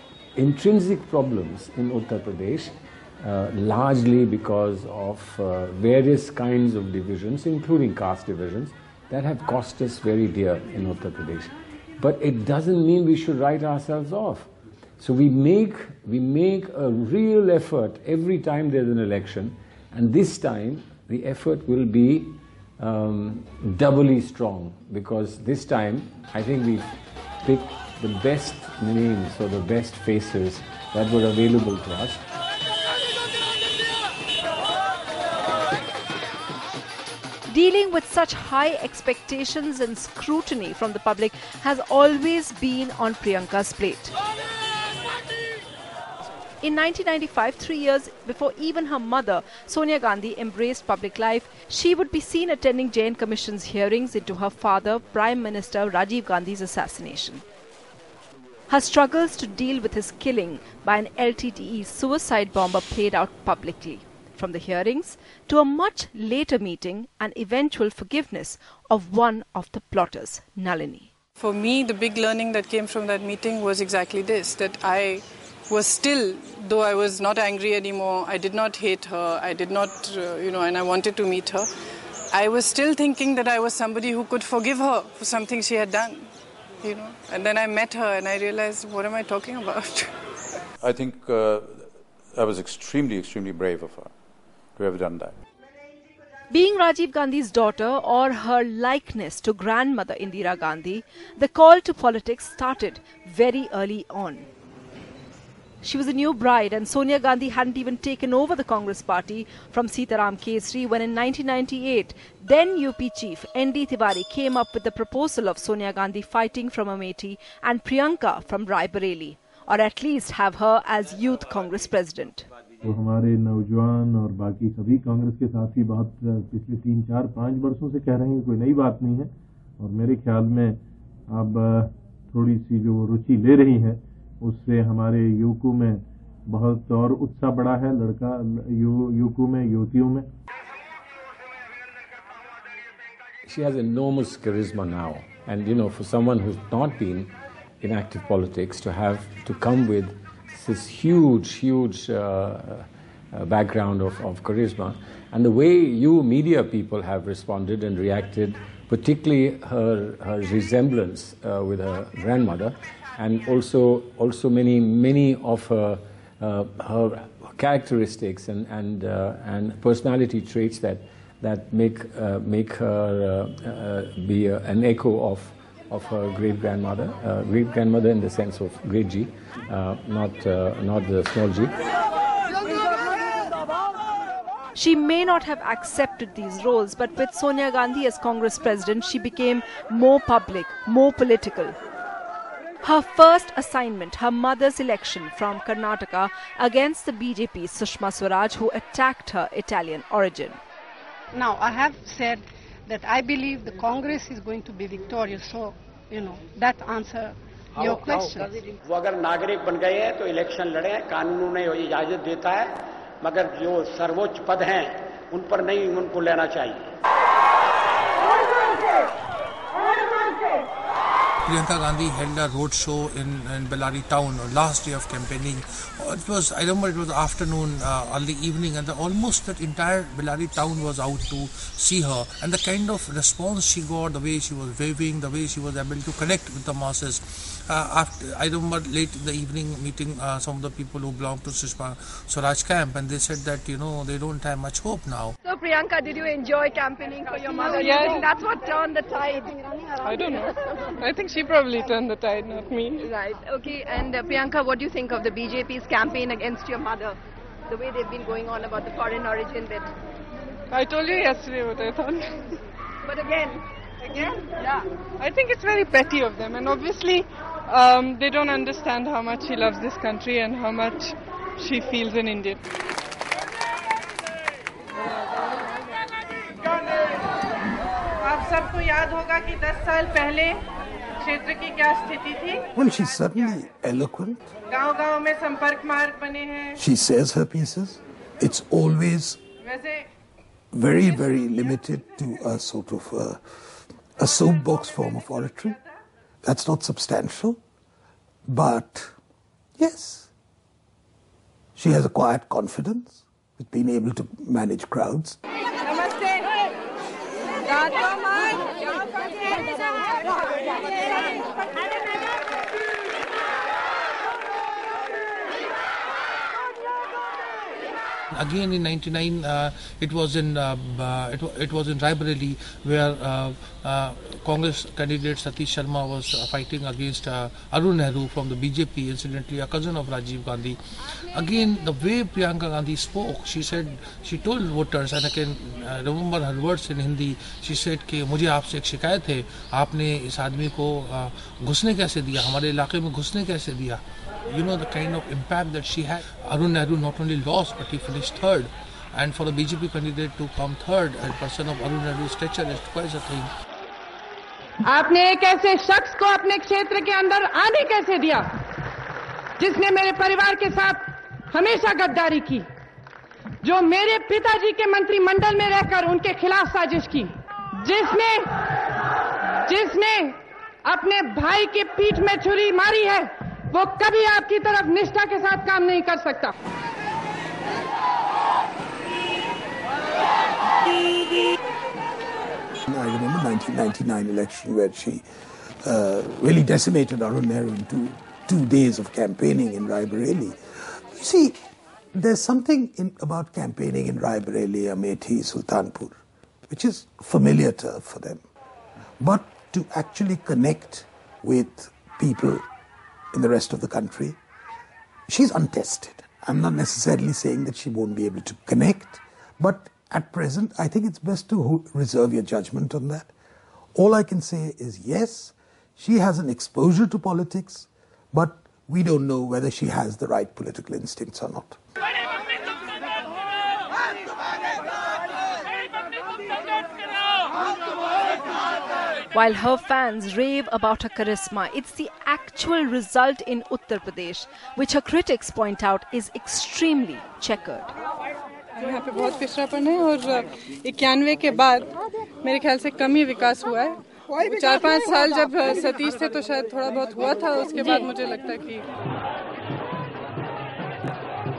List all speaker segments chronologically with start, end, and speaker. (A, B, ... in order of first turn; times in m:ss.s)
0:00.4-0:32.2 A
0:37.5-0:44.1 B
0:46.6-0:57.4 B
0:58.7-1:11.1 B
1:11.4-1:21.7 C
1:22.3-1:26.3 C
1:26.8-1:30.1 C
1:30.8-1:34.1 D
1:34.8-1:35.4 D
1:36.5-1:44.5 B
1:45.8-2:02.5 B
2:02.8-2:20.3 E
2:23.4-3:01.8 A
3:04.7-3:11.8 B
3:12.8-3:20.6 B
3:21.4-3:22.4 F
3:22.9-3:27.3 F
3:27.8-3:36.9 G
3:41.4-4:05.4 H
4:05.4-4:10.4 I
4:07.8-4:08.3 C
4:10.0-4:13.1 C
4:13.0-4:17.2 I
4:17.7-4:19.9 I
4:20.7-4:22.2 C
4:23.0-4:23.6 I
4:24.5-4:24.8 I
4:25.2-4:32.6 C
4:38.2-4:40.6 J
4:41.2-4:42.6 J
4:42.7-4:44.4 K
4:44.7-4:46.8 J
4:46.8-4:49.4 K
4:49.6-4:50.0 J
4:50.7-4:53.4 K
4:54.2-4:55.8 K
4:56.4-4:57.6 K
4:58.5-4:59.1 K
4:59.8-5:00.3 K
5:01.8-5:05.4 K
5:05.8-5:06.4 J
5:07.6-5:08.5 J
5:18.3-5:30.8 H
5:31.3-5:53.5 H
5:54.8-5:58.6 J
5:59.6-6:02.7 J
6:03.6-6:08.6 J
6:09.6-6:16.6 J
6:22.9-6:25.2 K
6:25.8-6:31.6 K
6:32.1-6:38.4 K
6:39.2-6:42.6 K
6:43.3-6:44.4 K
6:45.3-6:53.3 K
6:53.9-7:01.8 K
7:09.3-7:17.9 B
7:18.8-7:21.9 C
7:22.4-7:28.8 C